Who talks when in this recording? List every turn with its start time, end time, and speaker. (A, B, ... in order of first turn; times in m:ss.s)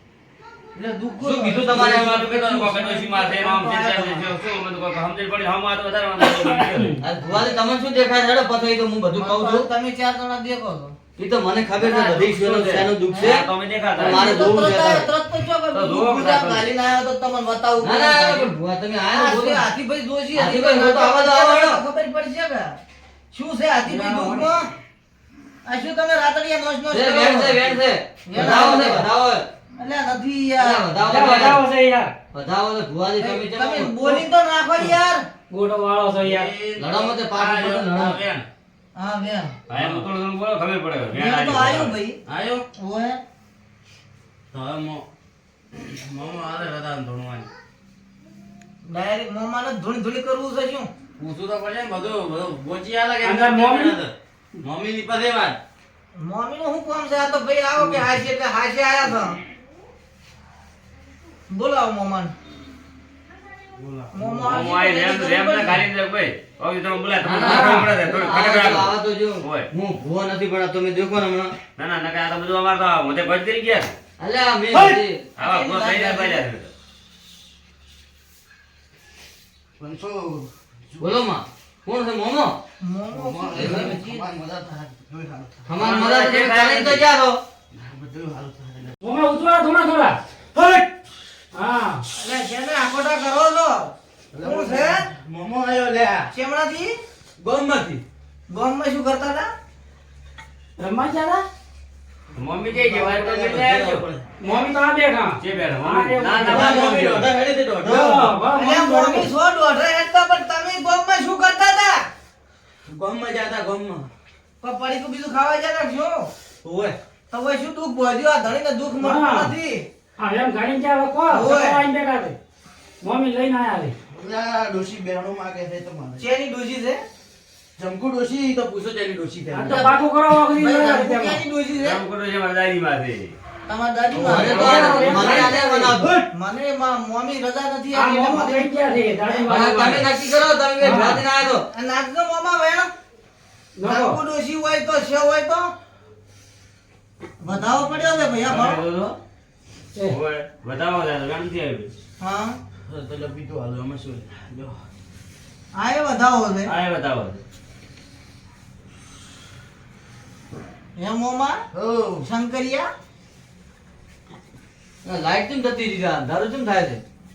0:00.8-0:04.3 A
0:01.2-0:02.3 B
0:01.7-0:07.0 C
0:06.2-0:07.0 D
0:07.0-0:09.7 B
0:09.2-0:11.0 A
0:11.2-0:13.5 B
0:11.8-0:14.3 C
0:13.1-0:13.3 A
0:14.0-0:15.1 B
0:14.0-0:18.5 A
0:15.7-0:16.7 C
0:17.8-0:19.6 B
0:19.2-0:22.8 A
0:20.3-0:21.8 B
0:23.3-0:24.7 A
0:23.9-0:24.3 E
0:25.6-0:29.1 A
0:26.9-0:29.5 B
0:29.8-0:31.0 A
0:30.6-0:31.6 B
0:31.0-0:32.1 D
0:32.3-0:34.2 B
0:33.2-0:35.2 A
0:35.5-0:36.5 D
0:36.2-0:36.9 E
0:36.8-0:38.2 B
0:37.4-0:38.5 C
0:39.0-0:39.6 A
0:39.7-0:42.0 C
0:39.7-0:40.1 E
0:41.1-0:42.2 A
0:42.3-0:42.6 E
0:42.8-0:43.2 A
0:44.5-0:45.1 E
0:45.7-0:47.5 E
0:48.8-0:50.9 A
0:51.2-0:55.6 E
0:53.2-0:54.0 D
0:56.2-0:59.4 A
1:01.5-1:02.3 A
1:03.8-1:04.6 E
1:04.1-1:05.8 A
1:04.4-1:09.7 C
1:07.2-1:11.5 B
1:07.4-1:08.0 D
1:11.8-1:14.0 C
1:14.2-1:15.3 B
1:15.4-1:16.7 C
1:15.4-1:16.5 A
1:19.8-1:21.1 E
1:21.0-1:22.6 B
1:22.8-1:24.3 A
1:23.1-1:25.6 E
1:23.6-1:23.9 B
1:25.7-1:27.4 B
1:25.8-1:27.0 C
1:27.7-1:29.0 E
1:29.0-1:30.2 D
1:30.5-1:31.0 E
1:31.5-1:32.0 D
1:32.1-1:35.1 A
1:34.3-1:36.3 E
1:36.3-1:37.0 A
1:37.4-1:38.0 E
1:38.5-1:39.5 A
1:40.8-1:41.4 D
1:42.4-1:44.0 C
1:42.7-1:44.3 E
1:44.4-1:46.8 D
1:45.4-1:47.3 C
1:46.4-1:48.3 E
1:46.5-1:47.0 A
1:47.8-1:52.1 A
1:47.9-1:49.3 D
1:52.9-1:54.1 E
1:54.6-1:56.3 A
1:56.6-1:57.0 E
1:57.3-1:59.9 A
1:59.0-1:59.5 D
2:00.2-2:02.4 D
2:01.3-2:01.8 A
2:03.0-2:04.0 D
2:04.1-2:06.3 E
2:06.2-2:07.0 A
2:07.8-2:09.9 E
2:09.5-2:11.4 D
2:10.6-2:12.0 A
2:11.8-2:13.4 C
2:13.7-2:19.6 A
2:14.2-2:15.4 C
2:14.2-2:16.2 B
2:14.6-2:15.6 D
2:17.9-2:20.1 D
2:19.5-2:21.6 B
2:20.8-2:21.2 D
2:21.7-2:22.9 A
2:23.8-2:24.2 D
2:23.8-2:25.7 A
2:27.4-2:28.8 A
2:28.5-2:29.2 C
2:30.1-2:31.9 C
2:32.2-2:32.6 A
2:32.9-2:34.8 E
2:35.7-2:36.7 A
2:36.7-2:37.4 C
2:41.0-2:41.6 A
2:41.7-2:42.3 E
2:42.2-2:42.9 A
2:45.0-2:47.0 B